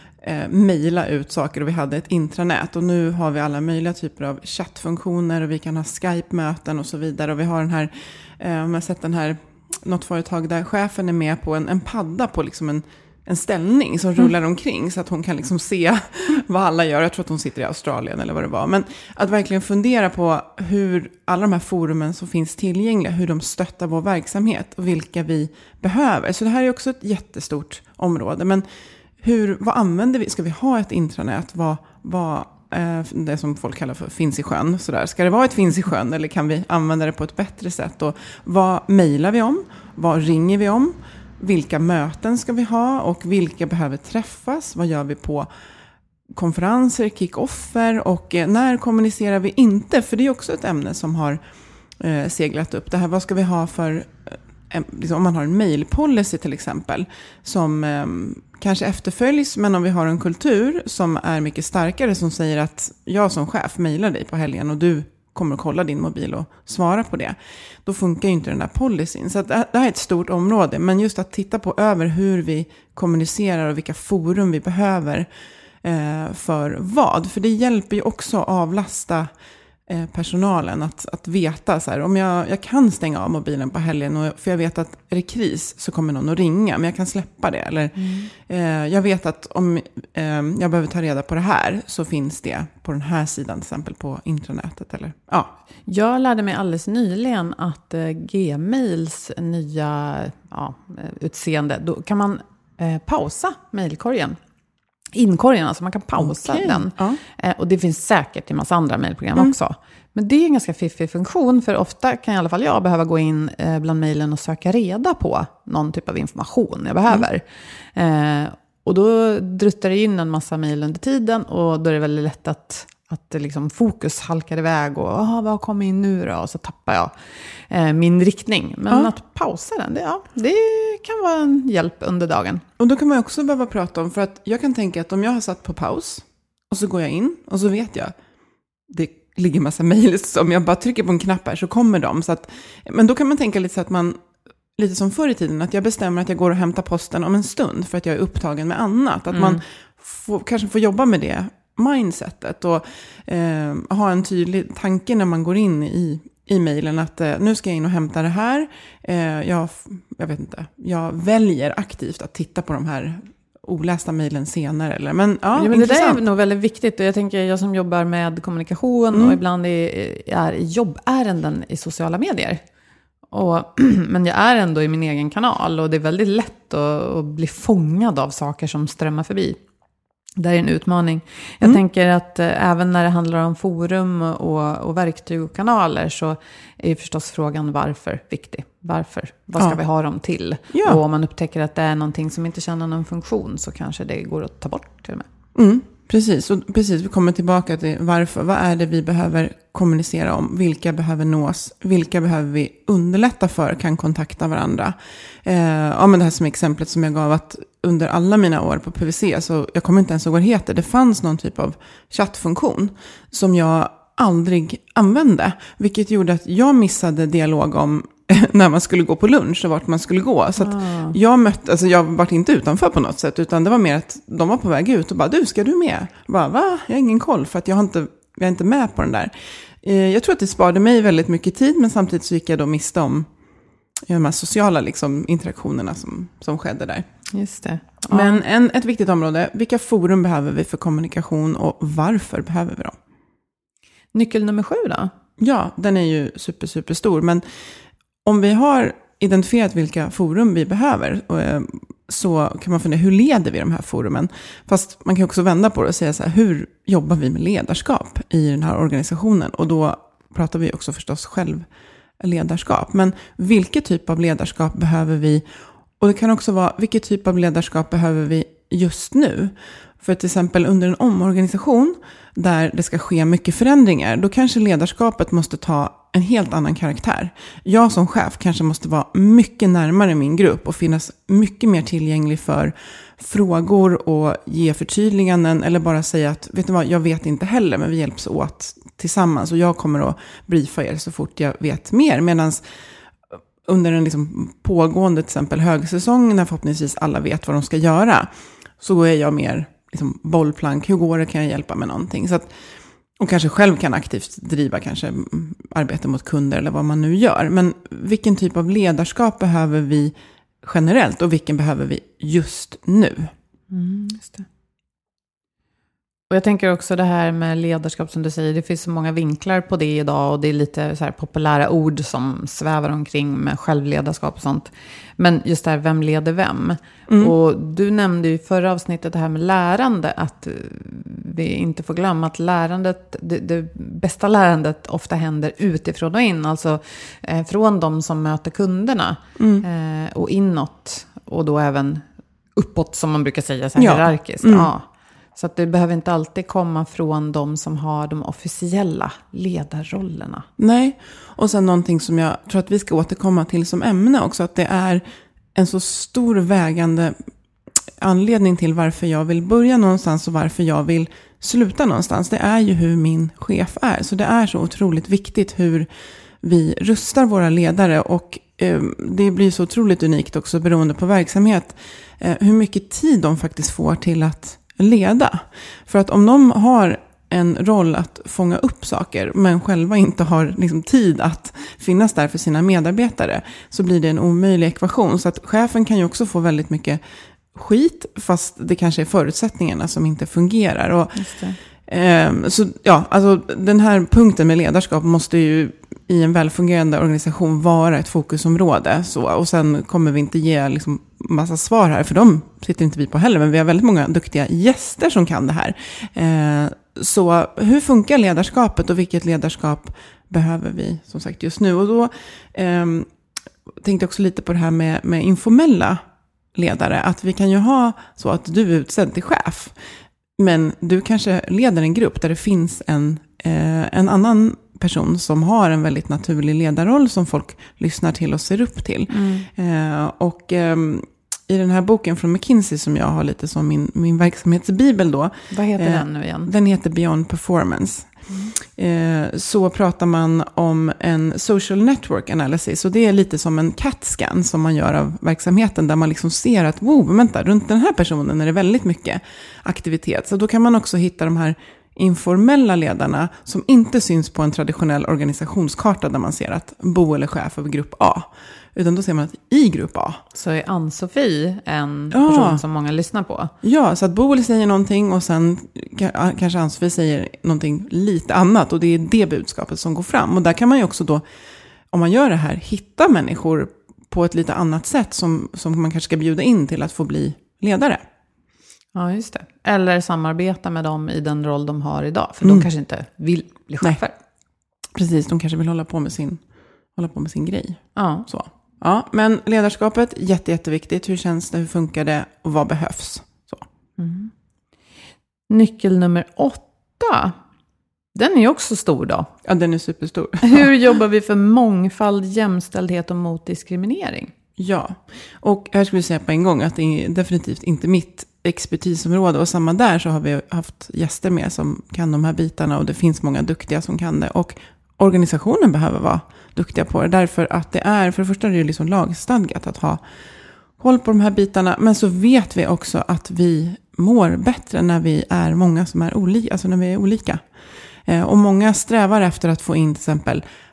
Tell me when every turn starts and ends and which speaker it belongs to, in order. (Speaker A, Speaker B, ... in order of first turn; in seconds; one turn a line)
Speaker A: 0.2-28.6
Speaker A: 29.2-45.5
Speaker A: 46.3-51.4
Speaker A: 52.0-75.3
Speaker A: 75.8-79.3
Speaker A: 79.9-95.5
Speaker B: 88.0-88.3
Speaker B: 95.9-104.4
Speaker B: 105.1-127.1
Speaker A: 106.2-107.2
Speaker B: 127.7-132.6
Speaker A: 132.8-138.1
Speaker A: 138.9-144.2
Speaker A: 144.8-166.2
Speaker B: 149.3-149.6
Speaker B: 165.6-172.6
Speaker A: 169.1-169.4
Speaker B: 173.3-179.6
Speaker B: 180.4-195.2
Speaker A: 190.7-191.0
Speaker A: 195.5-233.3
Speaker B: 220.6-221.2
Speaker A: 234.1-237.1
Speaker B: 237.3-238.4
Speaker A: 238.1-243.0
Speaker B: 244.1-245.1
Speaker A: 245.4-247.4
Speaker A: 248.2-261.7
Speaker A: 262.2-265.4
Speaker A: 266.0-292.6
Speaker A: 293.6-302.5
Speaker A: 303.2-313.3
Speaker B: 313.7-314.4
Speaker B: 316.3-342.0
Speaker A: 327.1-327.3
Speaker A: 339.4-339.6
Speaker B: 342.6-350.4
Speaker A: 343.8-344.7
Speaker A: 350.6-355.0
Speaker A: 355.5-357.1
Speaker A: 358.0-365.9
Speaker A: 366.4-387.0
Speaker A: 387.5-391.3
Speaker B: 391.1-391.6
Speaker A: 391.9-413.1
Speaker A: 413.8-416.0
Speaker A: 416.5-419.7
Speaker A: 420.4-438.1
Speaker B: 429.1-429.5
Speaker B: 435.5-436.5
Speaker A: 438.6-460.2
Speaker B: 460.3-463.5
Speaker A: 462.1-462.6
Speaker A: 463.6-471.2
Speaker A: 471.9-478.0
Speaker B: 478.9-484.1
Speaker A: 484.9-486.4
Speaker A: 486.9-493.6
Speaker B: 487.9-488.3
Speaker B: 494.0-494.3
Speaker B: 495.5-497.4
Speaker B: 498.1-499.3
Speaker A: 499.4-500.7
Speaker B: 500.4-504.3
Speaker A: 504.6-520.0
Speaker A: 520.8-527.4
Speaker A: 528.1-530.4